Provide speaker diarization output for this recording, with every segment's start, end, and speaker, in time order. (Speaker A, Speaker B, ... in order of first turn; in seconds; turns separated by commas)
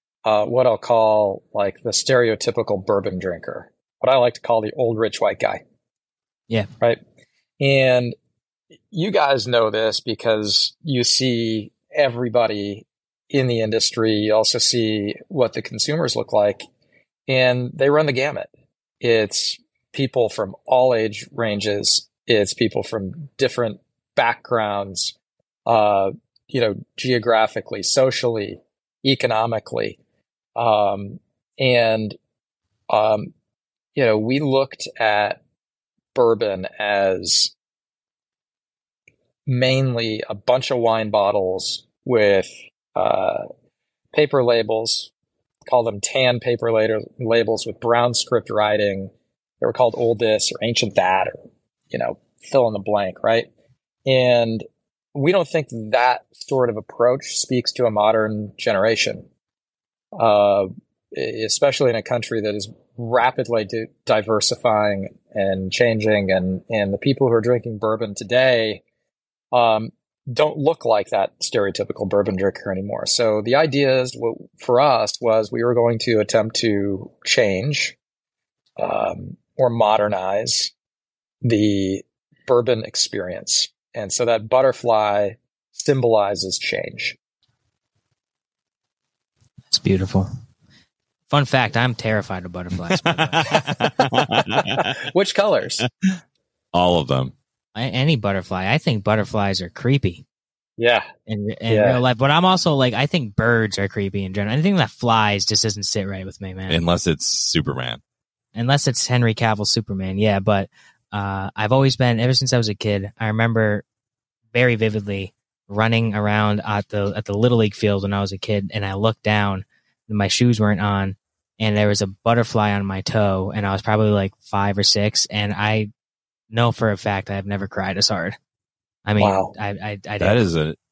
Speaker A: 0.2-5.6, Speaker A: 7.6-8.2, Speaker A: 8.9-16.7, Speaker A: 17.3-18.5, Speaker A: 19.0-25.1, Speaker A: 25.7-30.0, Speaker A: 30.6-32.2, Speaker A: 32.9-33.3, Speaker A: 34.0-35.4, Speaker A: 36.1-37.5, Speaker A: 39.5-43.5, Speaker A: 44.1-45.1, Speaker A: 45.7-51.4, Speaker A: 51.9-53.5, Speaker A: 54.1-54.6, Speaker A: 55.1-59.3, Speaker A: 60.2-68.8, Speaker A: 69.5-78.0, Speaker A: 78.8-80.7, Speaker A: 81.4-87.2, Speaker B: 89.7-90.3, Speaker B: 91.3-93.7, Speaker C: 92.9-95.0, Speaker A: 94.6-95.8, Speaker C: 96.7-97.3, Speaker B: 97.8-100.2, Speaker A: 100.8-101.1, Speaker B: 101.3-106.8, Speaker A: 101.7-102.0, Speaker C: 106.7-108.0, Speaker B: 108.5-113.8, Speaker B: 114.5-125.9, Speaker B: 126.5-128.4, Speaker B: 129.1-130.4, Speaker A: 129.2-129.5, Speaker C: 130.2-130.8